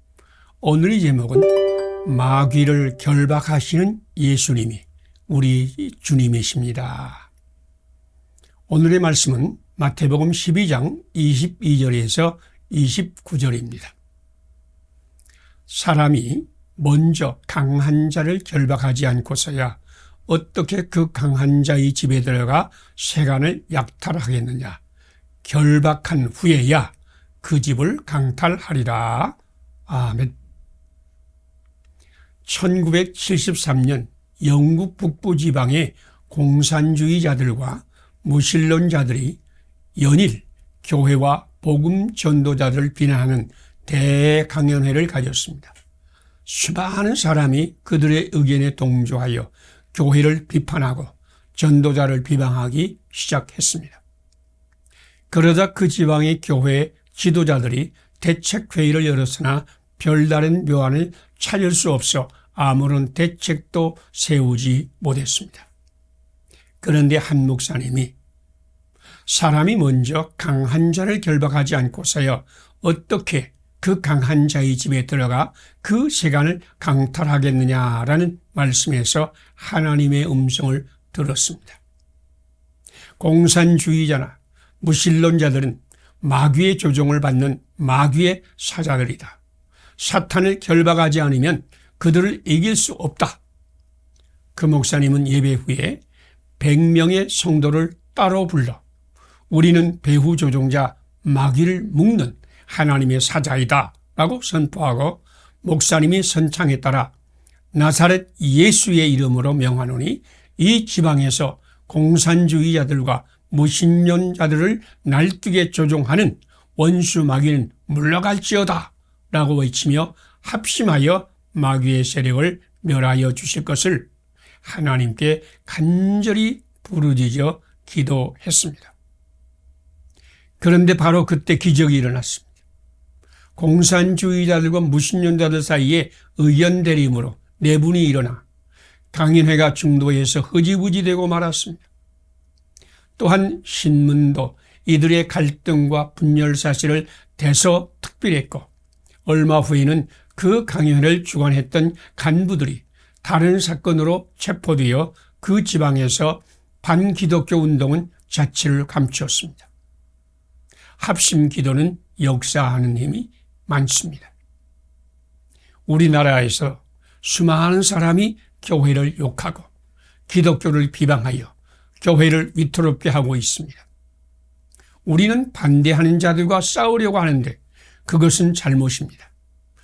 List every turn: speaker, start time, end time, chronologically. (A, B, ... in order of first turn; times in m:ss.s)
0:00.6-0:01.5 A
0:02.0-0:07.3 A
0:08.7-0:13.9 A
0:15.7-0:24.8 A
0:25.4-0:29.4 A
0:29.9-0:30.3 A
0:32.4-0:39.4 A
0:40.0-0:45.7 A
0:46.5-0:54.0 A
0:55.3-1:05.7 A
1:06.8-1:08.1 A
1:09.3-1:21.8 A
1:23.2-1:29.4 A
1:30.0-1:33.4 A
1:34.6-1:36.0 A
1:36.6-1:38.8 A
1:39.5-1:47.1 A
1:47.7-2:04.1 A
2:04.6-2:08.9 A
2:10.6-2:12.5 A
2:13.6-2:18.4 A
2:19.1-2:21.8 A
2:23.2-2:28.7 A
2:29.3-2:39.7 A
2:41.0-2:44.3 A
2:45.9-2:49.7 A
2:50.3-2:53.9 A
2:55.1-2:59.3 A